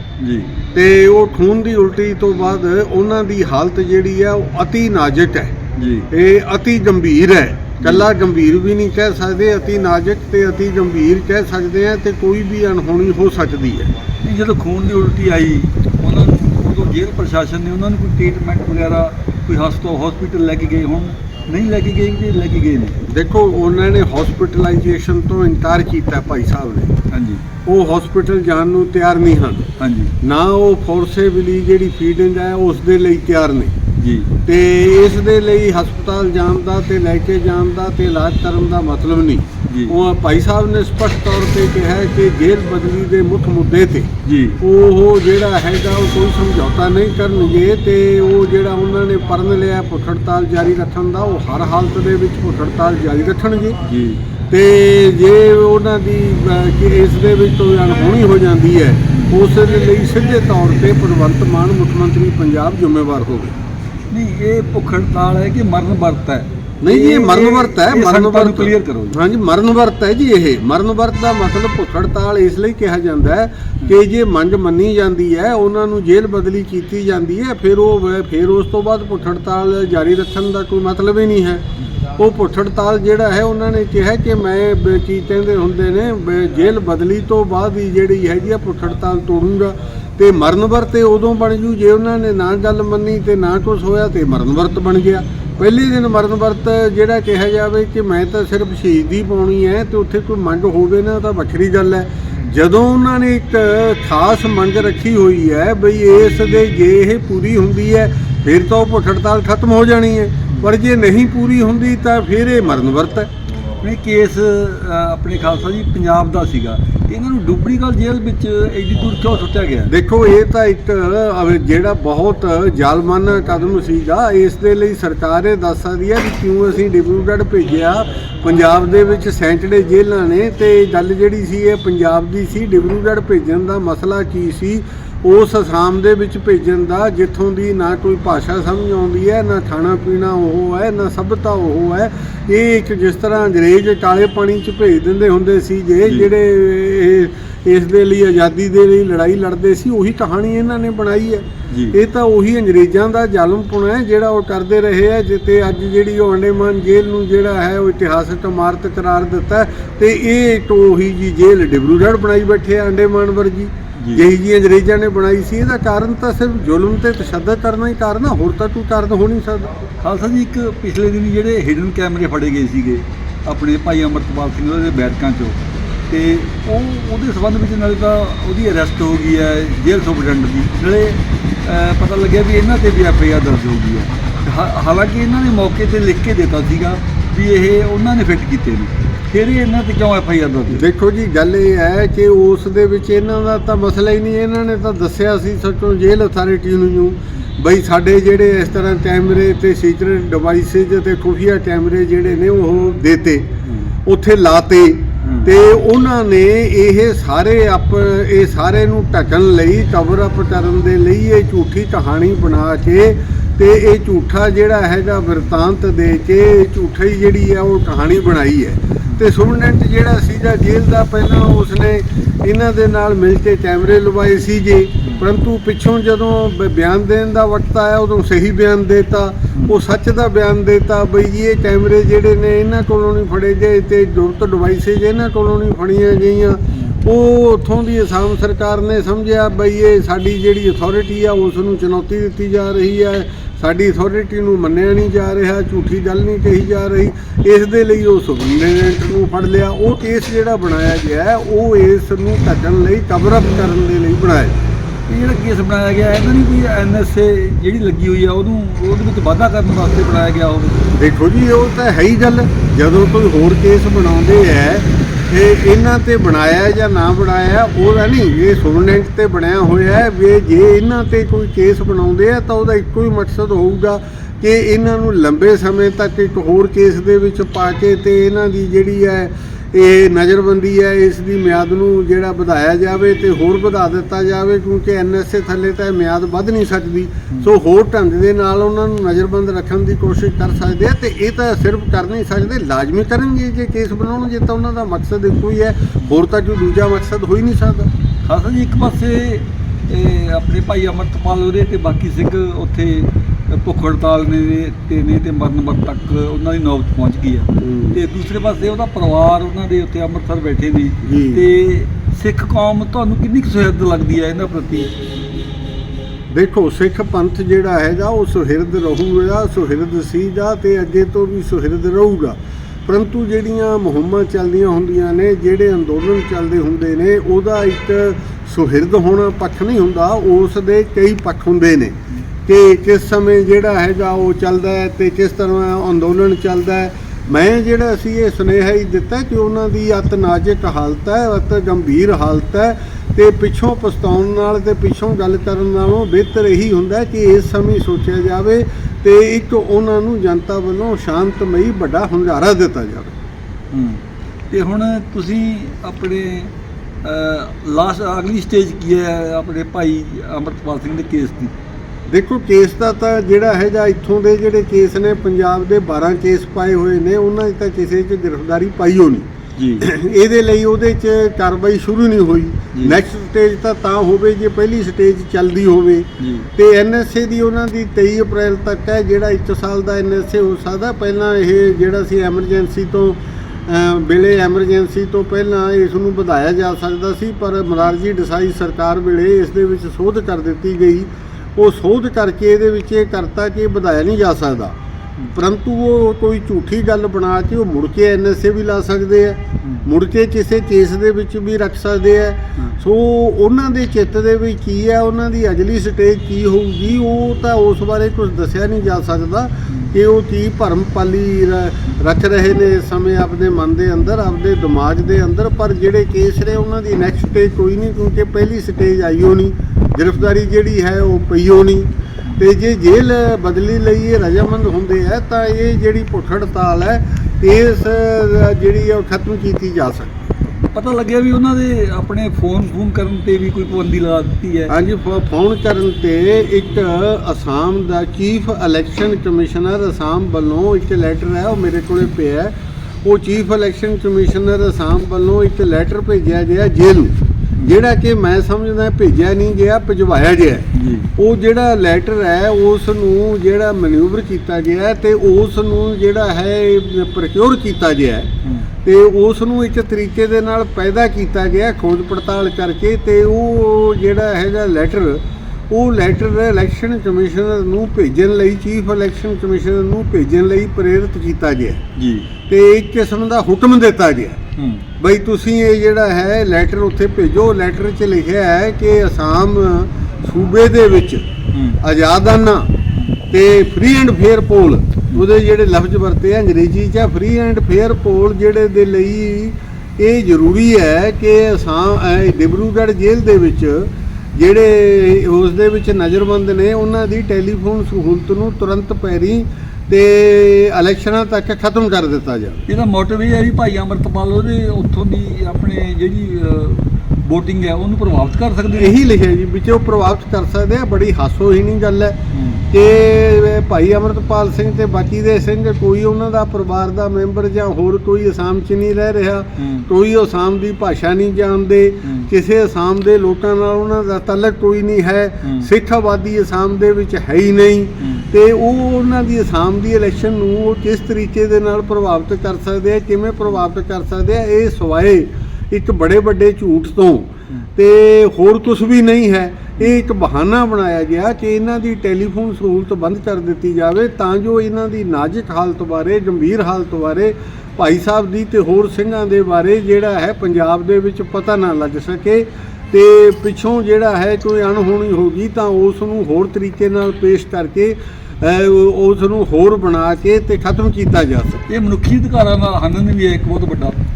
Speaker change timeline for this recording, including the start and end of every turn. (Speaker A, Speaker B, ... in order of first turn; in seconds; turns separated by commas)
Speaker A: 0.2-0.5, Speaker B: 0.7-5.5, Speaker A: 5.8-6.1, Speaker B: 6.1-13.9, Speaker A: 7.8-8.1, Speaker A: 14.2-23.0, Speaker B: 23.1-26.9, Speaker A: 27.1-27.4, Speaker B: 27.6-29.6, Speaker A: 29.8-30.1, Speaker B: 30.2-33.7, Speaker A: 34.0-34.3, Speaker B: 34.5-53.8, Speaker A: 39.7-39.9, Speaker A: 44.2-44.6, Speaker A: 53.9-54.2, Speaker B: 54.5-63.5, Speaker A: 64.1-69.2, Speaker B: 66.8-81.6, Speaker B: 82.2-113.3, Speaker A: 113.8-119.9, Speaker B: 119.9-169.7, Speaker A: 146.0-146.3, Speaker A: 151.7-152.0, Speaker A: 164.0-164.2, Speaker A: 170.0-190.8, Speaker B: 190.7-203.5, Speaker A: 203.6-203.9, Speaker B: 204.0-254.6, Speaker A: 205.2-205.5, Speaker A: 255.1-260.8, Speaker B: 260.9-297.9, Speaker A: 298.2-314.9, Speaker B: 307.6-308.0, Speaker B: 311.0-311.4, Speaker B: 316.3-353.1, Speaker A: 353.7-361.5, Speaker B: 362.1-369.3, Speaker A: 369.6-369.8, Speaker B: 369.8-394.7, Speaker A: 376.2-376.4, Speaker B: 395.3-430.2, Speaker A: 399.6-399.9, Speaker A: 430.6-434.7, Speaker B: 434.7-458.3, Speaker A: 450.7-451.1, Speaker B: 458.8-471.8, Speaker A: 472.0-472.3, Speaker B: 472.5-474.4, Speaker A: 474.6-474.8, Speaker B: 475.0-481.2, Speaker A: 481.5-481.8, Speaker B: 481.8-482.7, Speaker B: 483.3-502.6, Speaker A: 502.7-509.0, Speaker B: 508.8-512.2, Speaker A: 512.3-512.6, Speaker B: 512.7-561.6, Speaker A: 519.6-519.9, Speaker A: 522.0-522.3, Speaker A: 525.4-525.7, Speaker A: 528.0-528.3, Speaker A: 561.7-564.0